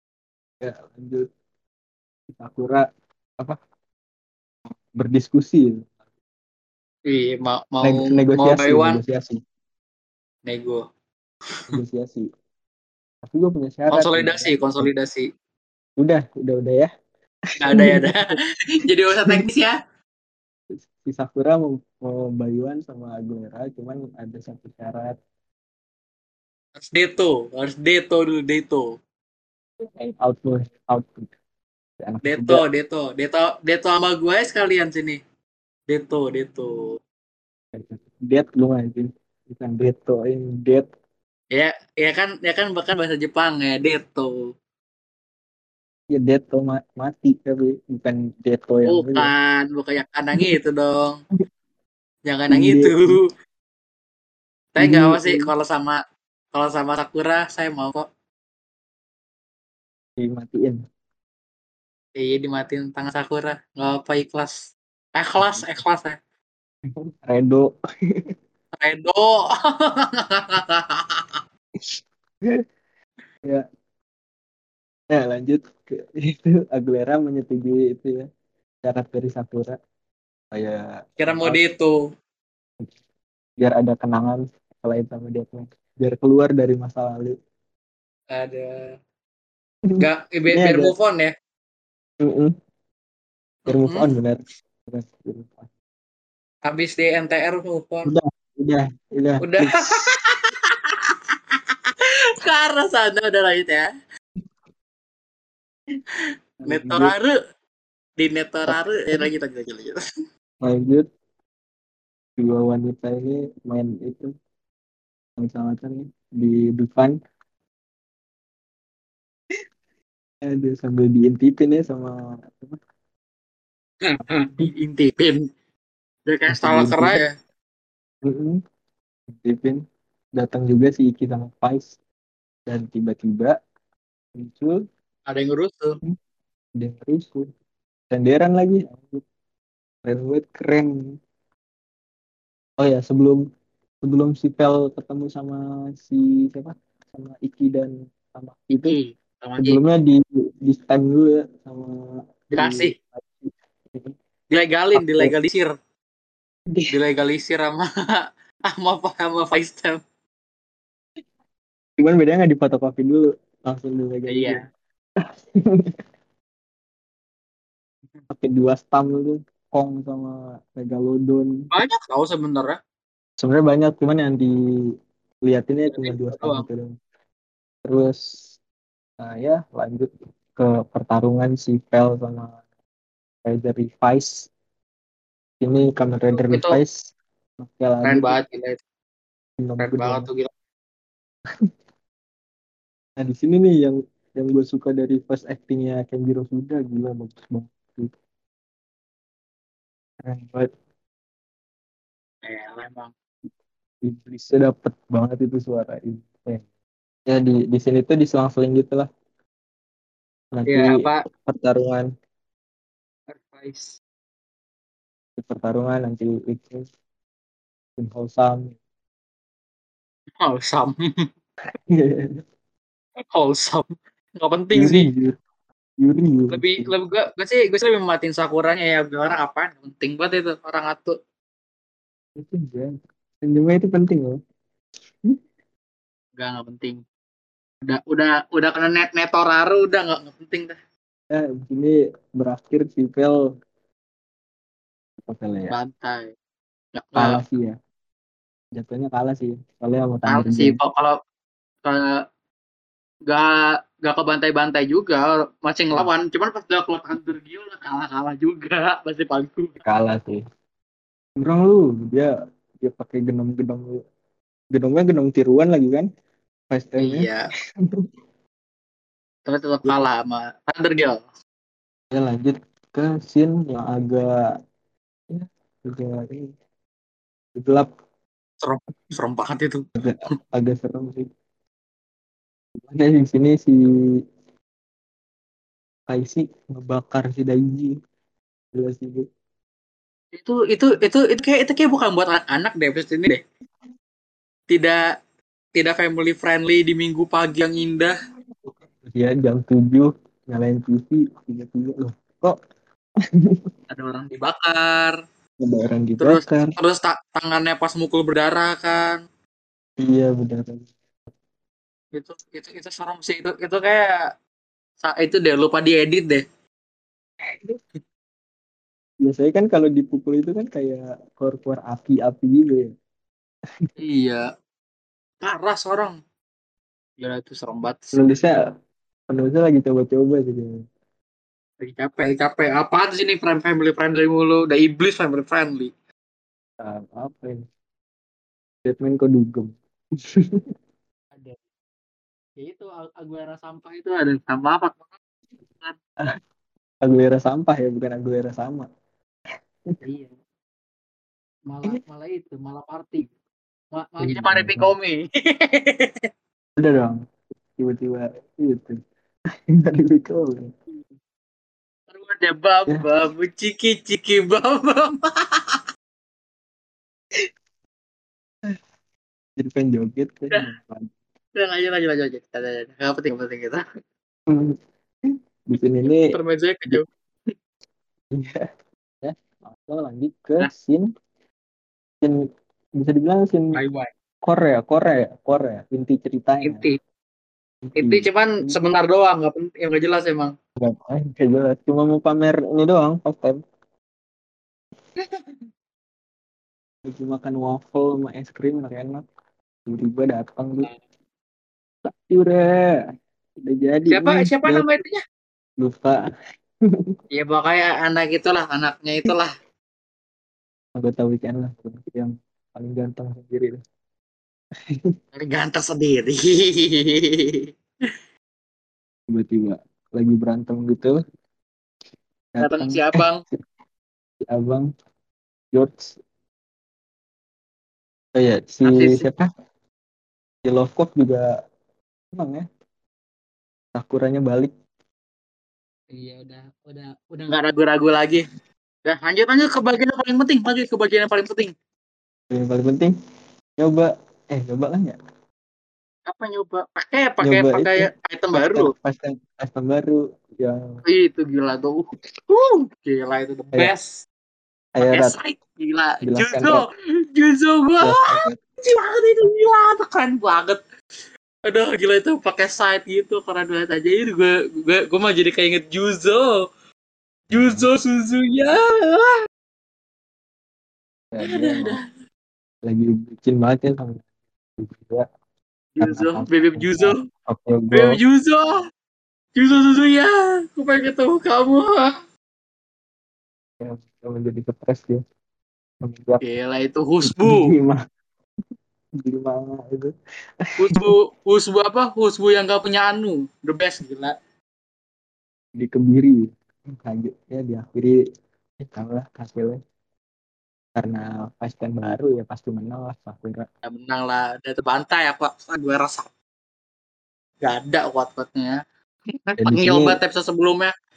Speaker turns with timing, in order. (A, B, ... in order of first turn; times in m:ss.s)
0:00.6-0:01.2 A
0:02.3-0:02.8 A
0:04.9-0:05.9 A
0:07.1-0:09.0 B
0:07.8-0:09.4 A
0:10.4-0:10.8 B
0:11.7-0:12.3 A
0:13.2-0:14.9 A
0:13.9-0:15.3 B
0:16.0-0:16.9 A
0:17.6-0:19.8 B
0:17.7-0:18.3 A
0:20.7-0:25.2 A
0:26.8-0:28.9 B
0:30.0-0:31.3 A
0:32.0-0:32.6 A
0:32.2-0:35.2 B
0:35.9-0:36.7 B
0:37.7-0:40.9 A
0:41.5-0:44.3 B
0:46.1-0:49.3 A
0:48.8-0:51.2 B
0:52.2-0:53.2 B
0:52.5-0:53.2 A
0:54.7-0:56.0 B
0:54.8-0:55.5 A
0:56.5-0:58.0 B
1:00.2-1:00.8 A
1:02.2-1:06.2 B
1:05.4-1:05.9 A
1:07.0-1:07.7 A
1:08.8-1:11.4 B
1:15.1-1:18.2 A
1:18.8-1:19.8 A
1:20.5-1:21.6 A
1:21.2-1:22.0 B
1:23.6-1:27.3 A
1:28.3-1:28.9 B
1:29.9-1:30.9 A
1:30.0-1:31.3 B
1:32.2-1:32.5 A
1:33.7-1:34.1 B
1:33.7-1:35.7 A
1:36.7-1:38.1 B
1:38.0-1:40.1 A
1:39.4-1:41.9 B
1:42.4-1:43.9 B
1:46.6-1:47.1 A
1:46.6-1:47.3 B
1:48.2-1:50.0 B
1:48.7-1:49.3 A
1:50.6-1:51.0 A
1:52.4-1:54.3 A
1:55.4-1:57.2 A
2:00.4-2:02.8 A
2:04.0-2:05.4 B
2:04.2-2:04.7 A
2:06.2-2:07.3 B
2:06.5-2:07.2 A
2:08.2-2:08.6 A
2:09.4-2:09.8 A
2:10.4-2:11.9 A
2:12.7-2:13.6 A
2:14.4-2:14.8 A
2:15.3-2:16.0 B
2:16.8-2:17.5 A
2:18.1-2:19.2 A
2:20.0-2:21.0 A
2:22.8-2:23.4 A
2:24.0-2:29.0 A
2:28.9-2:29.8 B
2:29.6-2:34.1 A
2:32.5-2:32.9 B
2:34.5-2:35.7 B
2:34.9-2:35.4 A
2:36.7-2:37.0 A
2:36.9-2:40.0 B
2:42.0-2:44.6 A
2:44.3-2:44.6 B
2:45.6-2:46.0 A
2:48.3-2:51.5 A
2:51.7-2:52.8 B
2:53.4-2:54.6 A
2:55.4-2:56.9 A
2:55.9-2:56.6 B
2:57.8-2:58.4 A
2:59.2-3:02.6 A
3:03.4-3:04.5 A
3:05.6-3:08.4 A
3:06.3-3:06.8 B
3:08.0-3:08.8 B
3:09.6-3:10.3 A
3:09.8-3:10.5 B
3:13.2-3:18.1 A
3:20.2-3:20.7 A
3:22.4-3:23.1 B
3:24.0-3:26.6 A
3:27.3-3:29.1 A
3:30.5-3:32.1 A
3:30.7-3:31.2 B
3:33.3-3:34.0 B
3:35.4-3:36.8 A
3:38.0-3:38.8 A
3:40.4-3:41.0 B
3:41.9-3:42.4 A
3:43.3-3:43.9 B
3:44.4-3:45.1 B
3:44.7-3:45.4 A
3:46.0-3:47.0 A
3:46.5-3:51.2 B
3:52.4-3:54.4 A
3:56.4-3:57.0 B
3:57.8-4:00.8 B
4:01.3-4:03.4 A
4:05.2-4:05.8 A
4:05.7-4:06.3 B
4:07.0-4:07.4 B
4:07.2-4:07.7 A
4:08.8-4:10.8 A
4:10.2-4:11.2 B
4:11.8-4:12.2 B
4:14.0-4:19.8 B
4:19.8-4:20.4 A
4:21.4-4:22.3 A
4:22.8-4:24.0 A
4:24.7-4:26.1 A
4:26.7-4:27.3 A
4:27.0-4:27.5 B
4:29.5-4:31.2 B
4:32.1-4:34.5 A
4:35.3-4:36.5 A
4:37.6-4:37.9 A
4:38.6-4:39.9 B
4:40.0-4:41.3 A
4:42.8-4:43.8 A
4:46.1-4:48.0 A
4:48.7-4:49.2 A
4:50.4-4:53.4 B
4:54.7-4:55.0 B
4:55.7-4:58.1 B
4:59.0-5:02.6 A
5:03.9-5:05.2 B
5:05.6-5:06.7 A
5:06.2-5:09.2 B
5:10.0-5:10.9 A
5:12.1-5:14.1 B
5:15.0-5:16.4 B
5:19.2-5:22.9 A
5:24.0-5:24.4 B
5:25.4-5:26.2 B
5:27.2-5:28.2 B
5:28.1-5:28.7 A
5:29.3-5:30.8 A
5:31.8-5:35.9 B
5:36.8-5:37.6 A
5:38.8-5:39.8 A
5:40.4-5:40.6 A
5:42.6-5:45.2 B
5:47.0-5:48.9 A
5:50.0-5:50.3 B
5:51.7-5:53.3 B
5:53.9-5:56.2 B
5:54.2-5:54.9 A
5:56.8-5:57.2 A
5:57.8-5:59.0 A
5:59.8-6:00.7 A
6:02.1-6:05.8 B
6:09.6-6:11.1 A
6:11.6-6:13.8 B
6:14.5-6:14.8 A
6:15.7-6:16.3 A
6:16.0-6:17.0 B
6:18.3-6:18.6 A
6:19.2-6:21.1 A
6:23.0-6:23.7 A
6:23.8-6:24.1 B
6:24.4-6:26.9 A
6:26.6-6:27.0 B
6:27.8-6:28.8 A
6:28.0-6:30.5 B
6:30.8-6:33.6 A
6:37.0-6:39.2 A
6:39.9-6:40.9 A
6:42.0-6:43.0 A
6:43.6-6:45.0 A
6:44.1-6:45.2 B
6:45.8-6:46.2 A
6:47.3-6:49.5 B
6:51.0-6:53.8 A
6:55.4-6:57.7 B
6:59.3-7:01.2 A
7:02.5-7:03.2 A
7:02.6-7:03.4 B
7:04.5-7:04.9 A
7:05.7-7:06.2 A
7:08.4-7:09.5 A
7:08.8-7:09.2 B
7:10.6-7:11.5 A
7:12.3-7:12.6 A
7:14.0-7:14.7 A
7:16.1-7:18.4 B
7:19.0-7:21.7 B
7:22.5-7:23.1 A
7:23.8-7:25.2 A
7:26.3-7:28.9 B
7:27.4-7:31.0 A
7:31.0-7:34.2 B
7:35.0-7:35.4 A
7:35.0-7:40.8 B
7:36.2-7:36.9 A
7:38.0-7:38.6 A
7:41.6-7:46.6 B
7:47.5-7:49.3 B
7:47.6-7:47.9 A
7:51.3-7:52.0 A
7:51.4-7:52.0 B
7:52.8-7:54.2 A
7:54.8-7:55.2 A
7:56.0-7:57.1 B
7:56.0-7:58.2 A
7:57.9-7:58.8 B
7:59.6-8:02.1 B
8:03.8-8:05.2 A
8:06.0-8:06.4 A
8:06.4-8:07.7 B
8:07.2-8:08.0 A
8:09.2-8:10.1 A
8:10.8-8:14.3 B
8:15.8-8:16.5 A
8:17.0-8:18.2 A
8:18.8-8:19.8 A
8:21.0-8:23.7 A
8:23.8-8:26.3 B
8:27.6-8:28.8 B
8:29.4-8:30.9 B
8:29.6-8:30.2 A